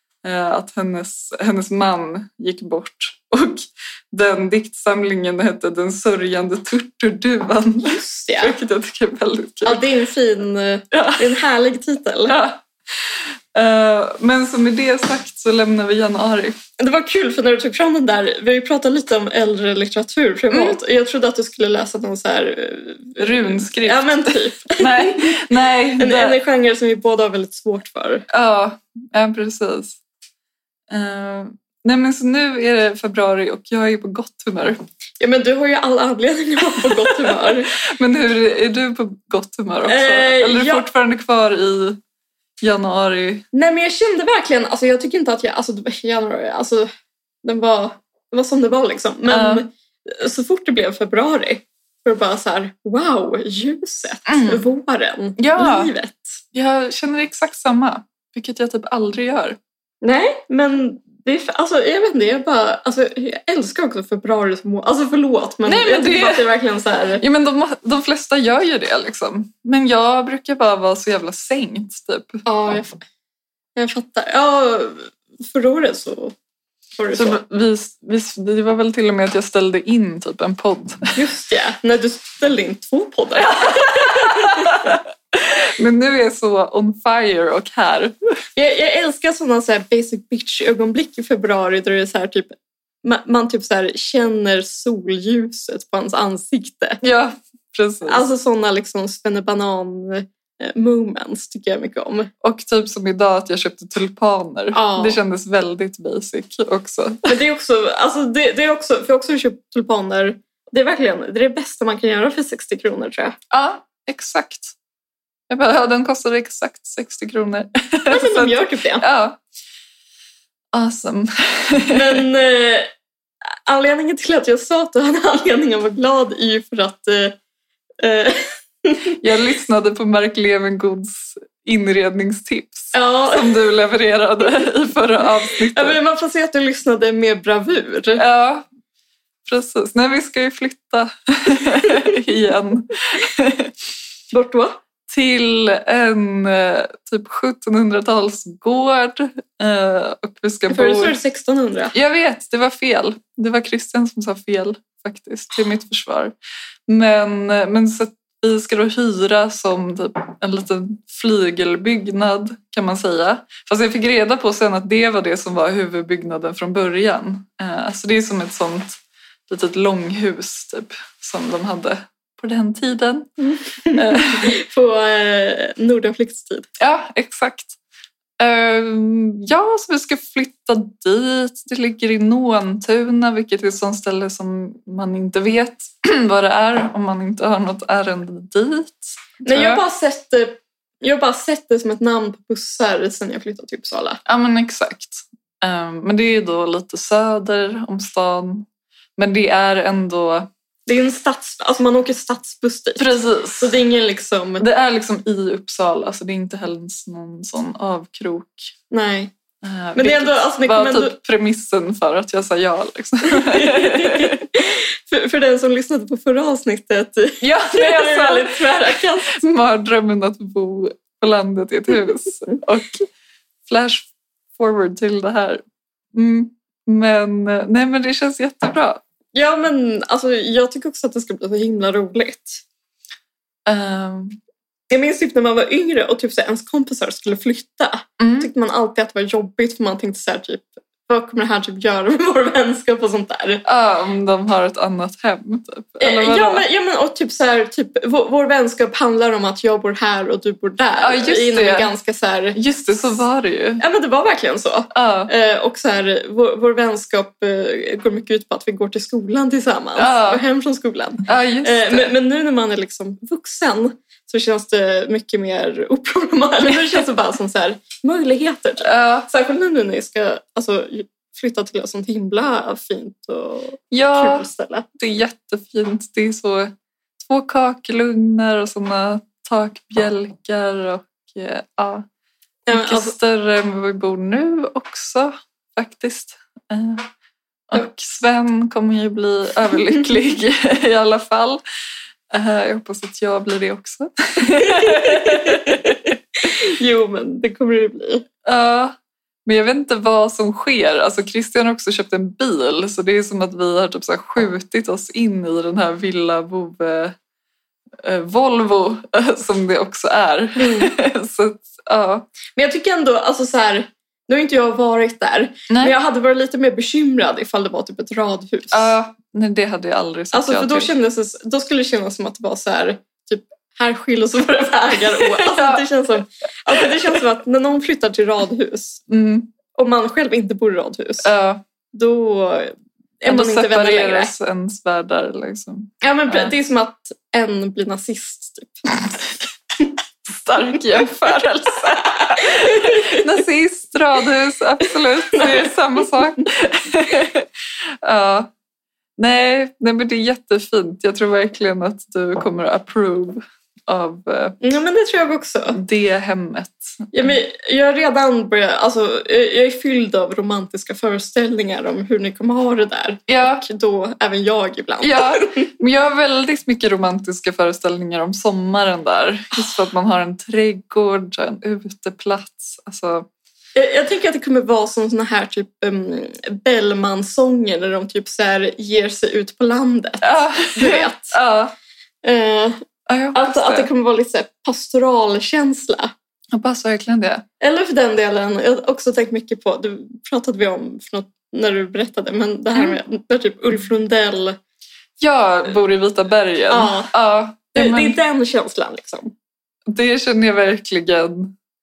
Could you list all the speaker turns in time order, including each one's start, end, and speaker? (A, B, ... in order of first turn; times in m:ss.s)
0:00.2-0:09.8 A
0:07.9-0:08.6 B
0:09.6-0:12.4 B
0:10.9-0:11.3 A
0:12.3-0:16.6 A
0:16.8-0:25.4 B
0:20.5-0:20.8 A
0:23.2-0:26.4 A
0:26.0-0:28.2 B
0:28.3-0:30.0 A
0:30.9-0:34.8 A
0:35.2-0:37.7 B
0:36.8-0:42.0 A
0:39.8-0:40.8 B
0:42.6-0:43.4 A
0:43.5-0:46.9 B
0:47.4-0:56.4 B
0:49.3-0:49.7 A
0:54.3-0:54.6 A
0:55.4-0:55.9 A
0:56.5-0:59.6 A
1:00.0-1:07.2 B
1:05.6-1:06.5 A
1:07.2-1:12.4 A
1:12.4-1:13.0 B
1:13.8-1:16.3 B
1:17.0-1:17.4 B
1:17.1-1:21.2 A
1:21.2-1:25.0 B
1:23.5-1:28.1 A
1:28.6-1:37.0 B
1:37.0-1:38.2 A
1:38.0-1:42.3 B
1:42.4-1:47.4 A
1:44.7-1:45.2 B
1:47.2-1:53.4 B
1:53.5-1:54.7 A
1:55.5-1:59.4 A
1:58.1-1:59.0 B
2:00.7-2:02.2 A
2:01.9-2:02.9 B
2:03.7-2:07.4 B
2:08.0-2:09.2 B
2:09.2-2:16.0 A
2:12.9-2:13.6 B
2:15.7-2:18.2 B
2:18.2-2:18.7 A
2:19.4-2:23.8 A
2:24.3-2:24.8 B
2:25.1-2:31.2 A
2:30.7-2:31.9 B
2:31.9-2:36.3 A
2:36.9-2:53.3 A
2:53.5-2:56.7 B
2:53.8-2:54.5 A
2:56.8-2:57.8 A
2:58.4-3:09.8 A
3:09.4-3:14.2 B
3:14.2-3:20.5 A
3:20.9-3:24.6 B
3:23.0-3:23.7 A
3:24.6-3:28.7 A
3:28.9-3:29.3 B
3:29.6-3:34.4 A
3:30.0-3:31.2 B
3:33.3-3:39.4 B
3:37.4-3:43.1 A
3:43.7-3:45.6 A
3:46.1-3:49.0 A
3:49.3-3:52.6 B
3:53.7-3:54.4 A
3:54.9-4:03.6 B
3:58.2-3:58.5 A
4:03.6-4:06.6 A
4:06.0-4:12.6 B
4:11.0-4:11.9 A
4:12.5-4:13.8 A
4:13.8-4:34.9 B
4:14.9-4:15.3 A
4:20.0-4:20.4 A
4:21.2-4:22.1 A
4:28.8-4:29.3 A
4:33.9-4:42.0 A
4:42.7-4:43.1 B
4:42.7-4:47.1 A
4:47.7-4:51.6 A
4:52.3-4:56.1 A
4:54.6-4:58.2 B
4:58.4-4:58.9 A
4:59.4-5:07.2 A
5:08.0-5:12.3 A
5:10.6-5:10.9 B
5:12.6-5:18.9 B
5:15.7-5:15.9 A
5:18.7-5:20.9 A
5:20.3-5:29.0 B
5:25.2-5:25.8 A
5:26.7-5:27.2 A
5:29.1-5:29.5 A
5:29.7-5:31.3 B
5:31.2-5:31.6 A
5:31.9-5:34.3 B
5:33.3-5:36.5 A
5:36.0-5:38.8 B
5:40.3-5:47.5 A
5:40.6-5:41.0 B
5:41.8-5:43.3 B
5:45.3-5:45.7 B
5:48.0-5:48.5 A
5:49.2-5:54.6 A
5:54.6-5:55.8 B
5:55.7-5:57.4 A
5:57.1-6:05.7 B
6:03.3-6:03.6 A
6:05.0-6:13.3 A
6:13.8-6:21.3 B
6:20.2-6:21.7 A
6:22.2-6:22.8 B
6:23.1-6:23.9 A
6:23.3-6:26.1 B
6:26.5-6:27.4 A
6:27.6-6:34.6 B
6:35.2-6:38.2 A
6:36.7-6:37.1 B
6:37.7-6:39.3 B
6:39.9-6:41.5 A